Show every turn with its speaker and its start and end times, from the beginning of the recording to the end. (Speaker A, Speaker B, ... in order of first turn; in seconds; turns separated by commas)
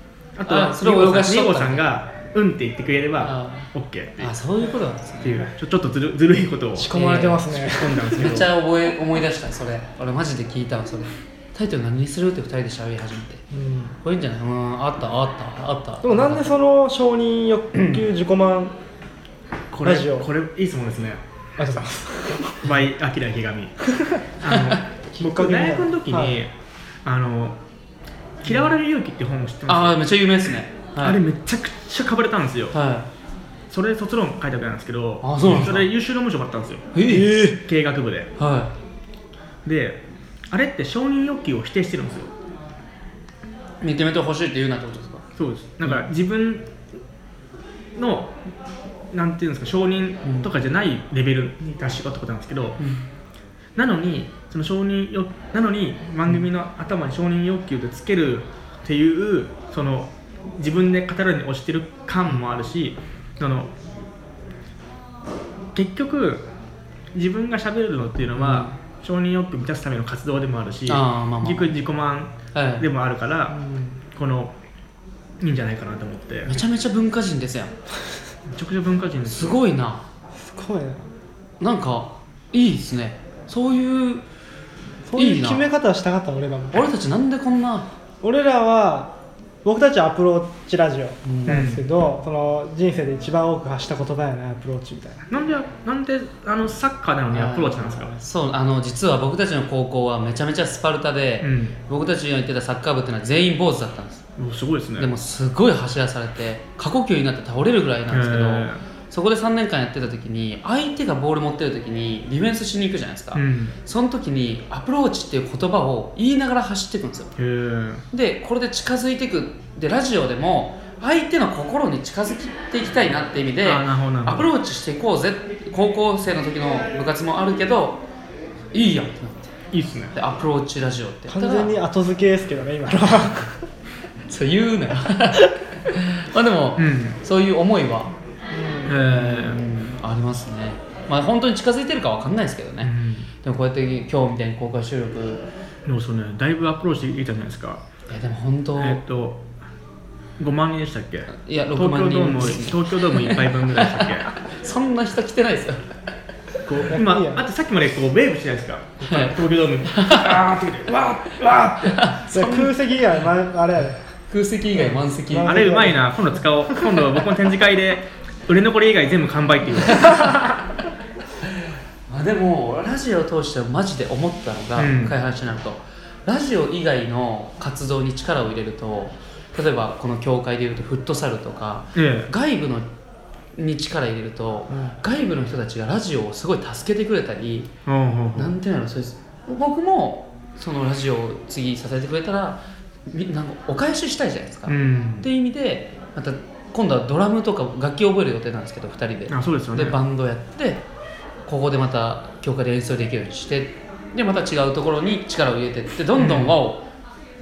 Speaker A: 0.4-4.3, Speaker B: 0.5-1.8, Speaker B: 3.2-3.7, Speaker B: 4.2-5.5, Speaker A: 5.2-7.0, Speaker C: 6.8-8.2, Speaker B: 6.9-13.4, Speaker A: 7.6-8.5, Speaker C: 13.5-13.9, Speaker B: 14.0-16.5, Speaker C: 16.0-18.7, Speaker A: 19.7-21.2, Speaker C: 19.8-20.3, Speaker C: 21.6-22.6, Speaker A: 22.6-23.7, Speaker A: 24.4-26.5, Speaker B: 24.5-24.8, Speaker C: 25.1-26.4, Speaker A: 27.0-27.6, Speaker A: 28.4-30.0, Speaker B: 29.7-31.2, Speaker A: 31.0-32.8, Speaker B: 32.7-33.1, Speaker A: 33.7-36.9, Speaker B: 35.2-35.9, Speaker B: 36.9-37.6, Speaker C: 37.1-37.5, Speaker A: 37.5-38.3, Speaker B: 38.4-38.7, Speaker A: 39.6-42.3, Speaker B: 43.8-45.2, Speaker A: 45.4-46.6, Speaker A: 48.0-48.3, Speaker A: 49.1-52.8, Speaker B: 52.8-53.1, Speaker A: 53.8-63.7, Speaker A: 65.7-66.5, Speaker A: 67.1-73.5, Speaker B: 68.4-68.7, Speaker B: 70.9-71.7, Speaker B: 72.5-72.9, Speaker C: 73.5-74.0, Speaker A: 74.1-74.5, Speaker A: 75.4-76.6, Speaker B: 76.5-77.7, Speaker A: 78.5-79.6, Speaker B: 79.2-80.0, Speaker C: 80.4-81.1, Speaker B: 81.6-84.2, Speaker C: 85.1-86.9, Speaker B: 85.1-85.6, Speaker B: 86.7-87.9, Speaker C: 88.2-89.1, Speaker C: 89.6-95.3, Speaker B: 91.2-91.7, Speaker A: 91.5-91.8, Speaker A: 95.3-98.1, Speaker B: 97.3-104.2, Speaker A: 101.4-101.7, Speaker A: 104.4-105.1, Speaker B: 105.0-117.3, Speaker A: 108.1-108.8, Speaker A: 113.3-113.7, Speaker A: 117.4-118.0, Speaker B: 118.1-128.0, Speaker A: 123.6-124.5, Speaker B: 128.7-129.5, Speaker A: 129.7-130.1, Speaker B: 130.1-131.7, Speaker C: 131.3-133.6, Speaker B: 134.3-138.1, Speaker A: 136.8-137.2, Speaker C: 138.5-139.0, Speaker A: 138.8-139.6, Speaker B: 139.0-145.4, Speaker A: 142.8-143.3, Speaker A: 145.8-147.8, Speaker B: 148.1-149.0, Speaker A: 148.8-149.4, Speaker A: 150.4-154.3, Speaker B: 151.3-155.9, Speaker A: 156.6-162.0, Speaker C: 156.9-157.4, Speaker B: 159.1-159.3, Speaker B: 159.9-160.4, Speaker B: 161.8-162.7, Speaker C: 162.3-164.0, Speaker B: 164.3-165.7, Speaker C: 164.7-166.4, Speaker A: 165.4-170.5, Speaker B: 170.0-170.2, Speaker B: 171.4-182.9, Speaker A: 174.8-175.2, Speaker A: 181.9-182.3, Speaker B: 183.5-187.7, Speaker C: 184.7-185.0, Speaker A: 187.8-188.5, Speaker B: 188.3-200.8, Speaker A: 194.7-195.3, Speaker A: 199.3-200.0, Speaker B: 201.4-206.8, Speaker A: 206.2-206.6